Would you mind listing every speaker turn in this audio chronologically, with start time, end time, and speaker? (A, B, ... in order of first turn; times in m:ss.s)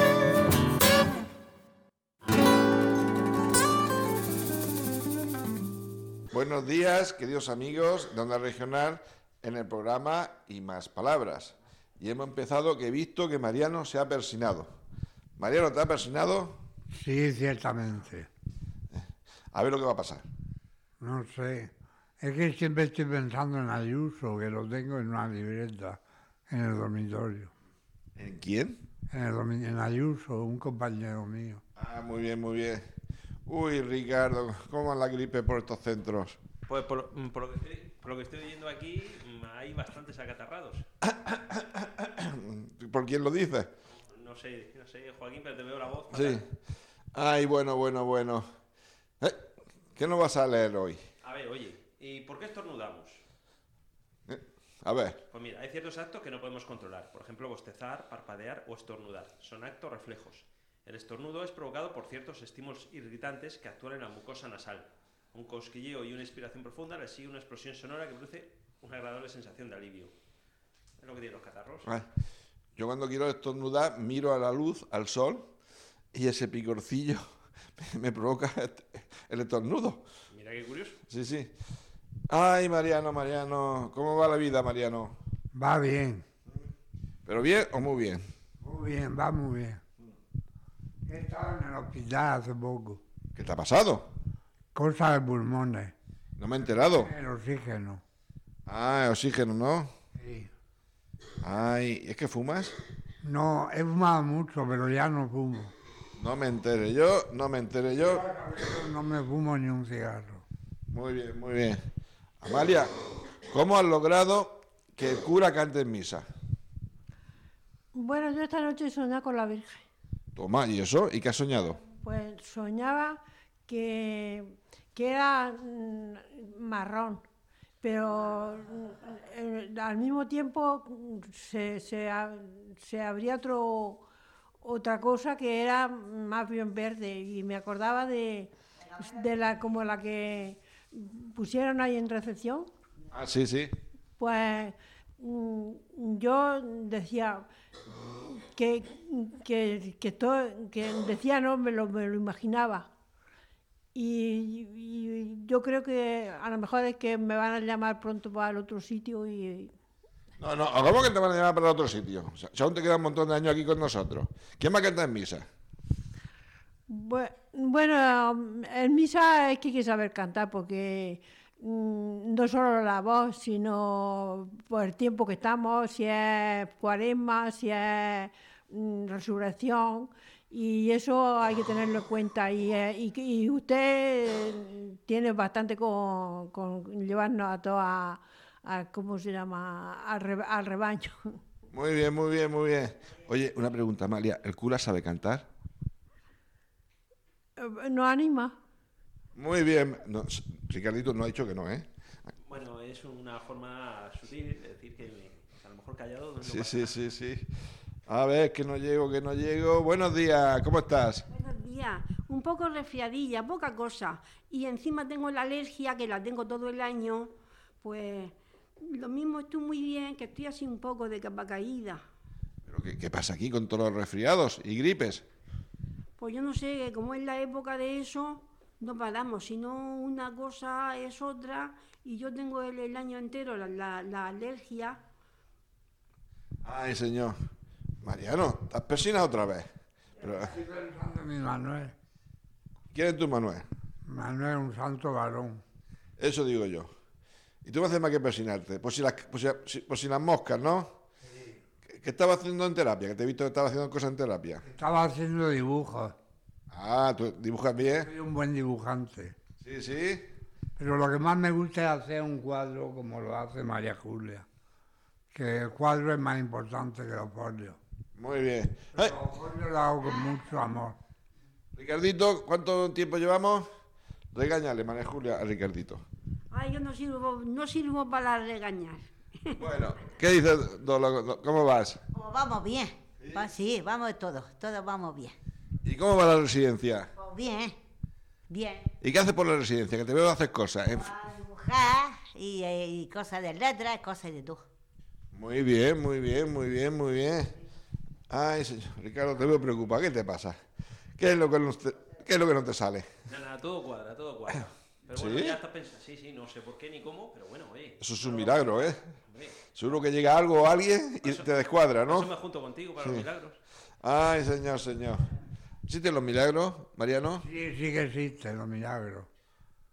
0:06.3-0:14.7 A
0:15.4-0:16.6 A
0:16.9-0:18.3 B
0:18.9-0:20.2 A
0:21.0-0:27.5 B
0:28.2-0:28.8 A
0:29.1-0:31.6 B
0:31.8-0:32.8 A
0:33.5-0:36.4 A
0:36.7-0:40.8 C
0:41.0-0:43.7 A
0:44.0-0:46.4 C
0:46.1-0:46.5 A
0:47.1-0:48.5 A
0:50.0-0:51.0 A
0:51.2-0:53.2 C
0:54.3-0:55.2 A
0:55.3-1:10.1 C
1:11.0-1:11.9 C
1:12.8-1:15.5 A
1:16.1-1:17.2 A
1:17.8-1:20.0 A
1:20.3-1:21.0 C
1:21.1-1:21.5 A
1:22.3-1:25.2 A
1:25.5-1:26.2 B
1:27.2-1:28.2 A
1:28.6-1:29.8 B
1:31.1-1:33.0 B
1:33.3-1:34.1 A
1:34.7-1:35.9 B
1:36.4-1:37.1 A
1:36.7-1:38.0 B
1:38.7-1:39.9 A
1:40.2-1:40.5 B
1:41.4-1:42.7 A
1:43.2-1:45.7 B
1:46.2-1:48.2 A
1:47.9-1:50.4 B
1:50.9-1:51.8 A
1:52.4-1:52.9 A
1:53.4-1:56.2 A
1:57.9-1:59.8 D
2:00.4-2:01.8 A
2:02.0-2:07.2 D
2:07.8-2:14.0 D
2:14.6-2:22.7 D
2:23.1-2:23.7 A
2:24.2-2:27.4 D
2:28.0-2:32.9 D
2:33.9-2:39.7 D
2:40.4-2:45.4 A
2:46.9-3:11.4 D
3:11.7-3:15.5 A
3:17.6-3:18.6 D
3:19.3-3:21.9 A
3:22.4-3:26.9 C
3:26.4-3:27.5 A
3:28.1-3:31.2 A
3:31.3-3:37.3 E
3:37.8-3:42.0 E
3:42.6-3:45.2 A
3:46.2-3:55.0 E
3:56.6-3:57.4 A
3:58.0-3:59.7 A
4:00.2-4:00.6 A
4:00.2-4:01.9 B
4:02.9-4:03.7 A
4:04.0-4:05.6 B
4:06.2-4:06.9 A
4:07.6-4:10.9 A
4:11.2-4:11.6 B
4:11.9-4:14.6 A
4:14.6-4:16.1 B
4:16.7-4:18.1 A
4:18.0-4:19.4 B
4:19.6-4:20.2 A
4:20.8-4:24.4 B
4:25.3-4:27.8 B
4:28.1-4:29.1 A
4:28.9-4:31.0 B
4:31.7-4:33.7 A
4:34.3-4:36.0 A
4:36.5-4:39.5 E
4:39.6-4:42.0 A
4:42.1-4:45.3 F
4:43.2-4:43.5 A
4:45.8-4:47.1 A
4:47.2-4:47.8 F
4:48.5-4:48.9 F
4:49.0-4:51.1 A
4:50.9-4:54.6 F
4:55.3-4:57.5 A
4:58.3-5:00.6 A
5:01.2-5:03.1 A
5:03.3-5:09.6 C
5:05.1-5:05.6 A
5:08.0-5:09.0 A
5:09.7-5:12.3 A
5:11.2-5:11.5 C
5:12.0-5:13.6 C
5:13.0-5:13.2 A
5:14.0-5:15.3 A
5:15.8-5:17.4 A
5:17.4-5:19.3 B